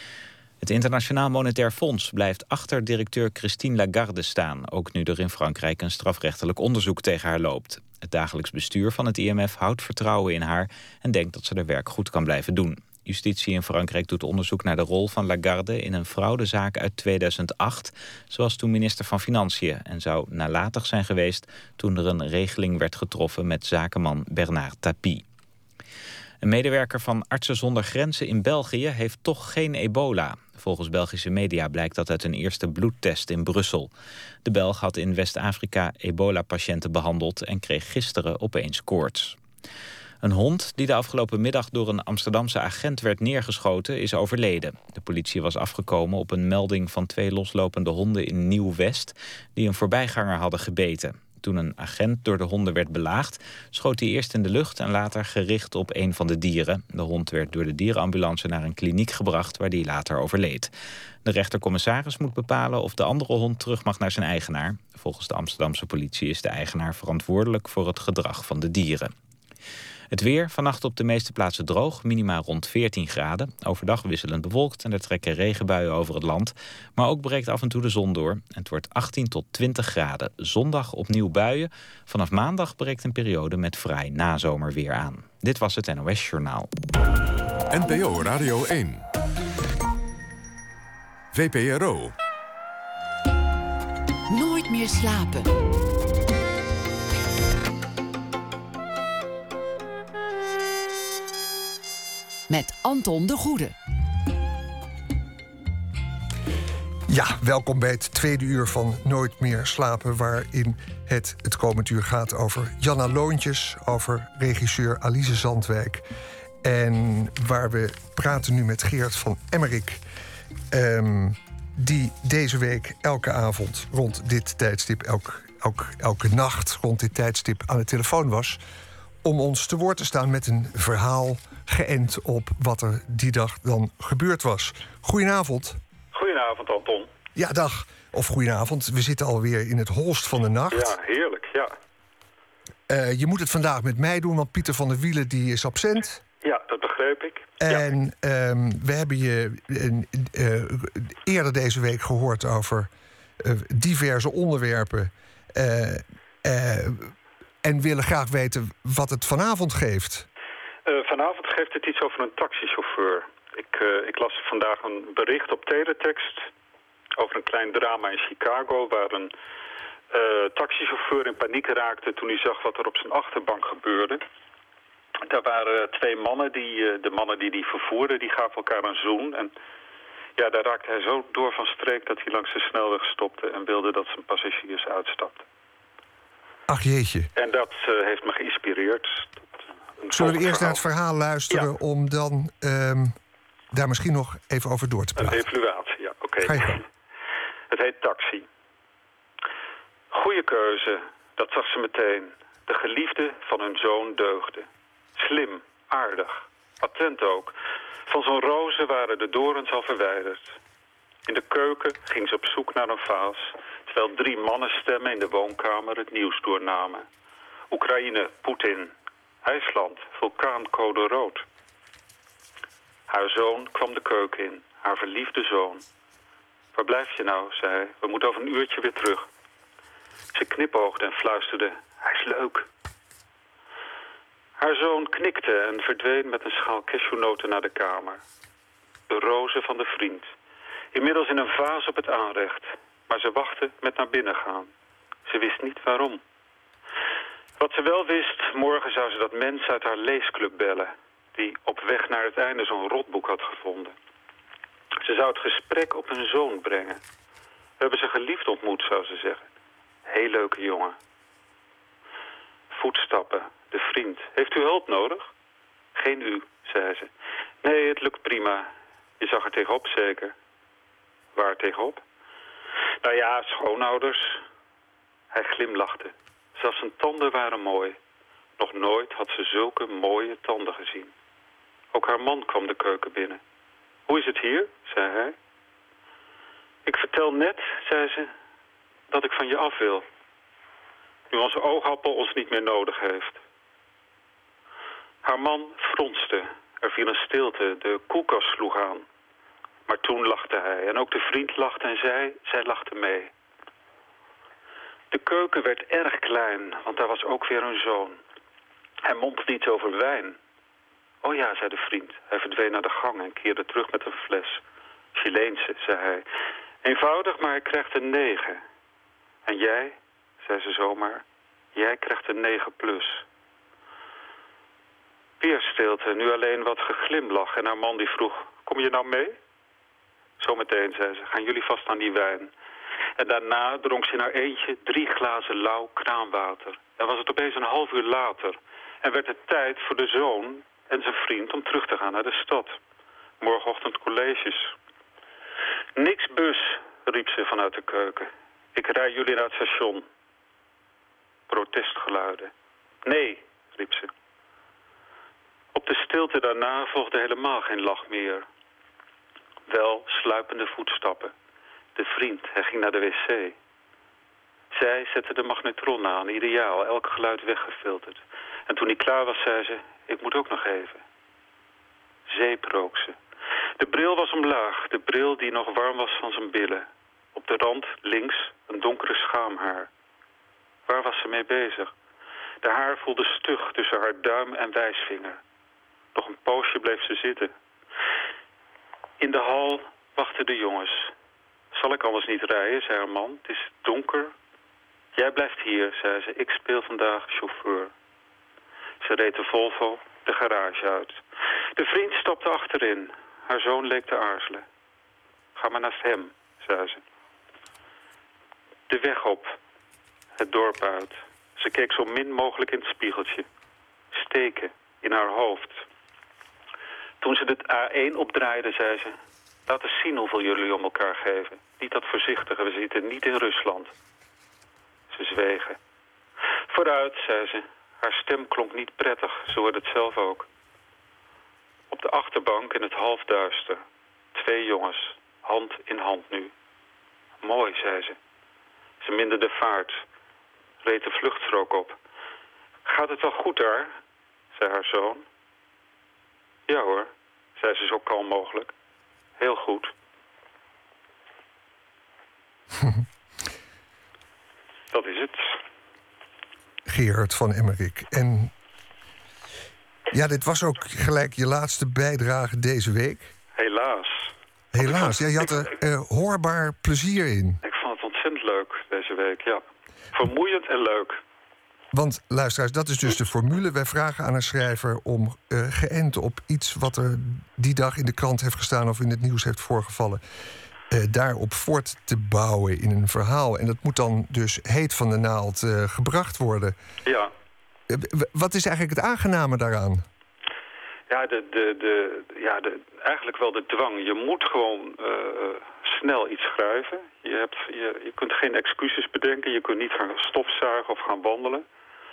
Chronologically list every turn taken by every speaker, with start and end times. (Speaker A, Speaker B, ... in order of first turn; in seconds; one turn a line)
Speaker A: 0.6-25.2
Speaker A: 26.4-33.9
Speaker A: 34.4-39.4
Speaker A: 40.2-60.7
Speaker A: 61.2-69.1
Speaker A: 70.1-86.7
Speaker B: 87.7-89.0
Speaker B: 91.3-92.1
Speaker C: 94.3-95.5
Speaker C: 102.5-103.7
Speaker D: 107.1-116.0
Speaker D: 116.6-120.0
Speaker D: 120.7-128.6
Speaker D: 129.2-135.8
Speaker E: 136.1-137.1
Speaker D: 137.3-140.9
Speaker E: 140.7-141.7
Speaker D: 142.9-146.2
Speaker E: 146.4-147.8
Speaker D: 147.6-160.3
Speaker E: 160.8-166.5
Speaker E: 167.2-169.3
Speaker E: 170.1-174.2
Speaker E: 175.2-179.5
Speaker E: 180.4-185.4
Speaker D: 186.7-187.3
Speaker E: 187.3-189.4
Speaker E: 190.0-190.8
Speaker D: 190.1-193.2
Speaker D: 193.7-195.4
Speaker E: 195.2-196.8
Speaker D: 196.4-196.8
Speaker E: 197.7-198.4
Speaker E: 200.1-204.7
Speaker E: 205.2-207.5
Speaker E: 208.1-210.6
Speaker E: 211.3-217.1
Speaker E: 217.7-218.9
Speaker E: 219.4-221.4
Speaker E: 223.1-225.8
Speaker E: 226.7-229.2
Speaker E: 230.3-232.7
Speaker E: 234.6-238.2
Speaker E: 239.1-240.3
Speaker E: 240.9-244.7
Speaker E: 245.2-246.2
Speaker E: 247.6-253.9
Speaker E: 255.0-257.0
Speaker E: 257.8-259.4
Speaker E: 260.1-260.9
Speaker E: 262.7-265.3
Speaker E: 265.9-267.1
Speaker E: 267.6-268.7
Speaker E: 269.2-270.3
Speaker E: 271.3-272.0
Speaker E: 273.0-274.4
Speaker E: 275.3-278.0
Speaker E: 278.6-281.1
Speaker E: 281.9-283.4
Speaker E: 284.1-285.3
Speaker E: 286.9-288.3
Speaker E: 289.1-290.0
Speaker E: 291.3-293.4
Speaker E: 295.2-299.0
Speaker E: 299.9-303.3
Speaker E: 305.1-308.2
Speaker E: 309.0-310.4
Speaker E: 311.2-314.6
Speaker E: 315.1-316.2
Speaker E: 316.8-318.6
Speaker E: 319.4-321.2
Speaker E: 321.7-323.2
Speaker E: 325.4-329.4
Speaker E: 330.4-332.5
Speaker E: 333.2-342.8
Speaker E: 343.4-344.7
Speaker E: 345.9-350.0
Speaker E: 351.5-352.5
Speaker E: 353.1-354.1
Speaker E: 355.7-358.4
Speaker E: 359.7-361.3
Speaker E: 361.9-363.5
Speaker E: 364.7-371.0
Speaker E: 372.3-373.1
Speaker E: 373.8-379.9
Speaker E: 380.9-381.9
Speaker E: 382.6-385.4
Speaker E: 386.1-387.5
Speaker E: 389.2-391.1
Speaker E: 391.7-394.3
Speaker E: 395.1-397.9
Speaker E: 399.0-401.2
Speaker E: 401.8-404.6
Speaker E: 405.6-407.0
Speaker E: 408.9-409.6
Speaker E: 410.4-413.4
Speaker E: 414.1-415.8
Speaker E: 417.2-419.1
Speaker E: 419.7-423.9
Speaker E: 425.1-425.8
Speaker E: 426.7-430.4
Speaker E: 431.9-433.8
Speaker E: 434.3-436.5
Speaker E: 437.4-438.2
Speaker E: 439.0-440.0
Speaker E: 440.8-442.0
Speaker E: 442.9-443.9
Speaker E: 444.5-445.2
Speaker E: 446.7-448.7
Speaker E: 449.4-449.9
Speaker D: 452.8-453.0
Speaker E: 454.9-455.6
Speaker D: 456.9-458.5
Speaker D: 460.1-463.3
Speaker E: 463.6-465.6
Speaker D: 464.7-467.6
Speaker E: 467.6-469.6
Speaker E: 470.1-471.2
Speaker D: 471.9-480.2
Speaker D: 480.9-486.7
Speaker D: 487.9-490.0
Speaker E: 491.1-501.6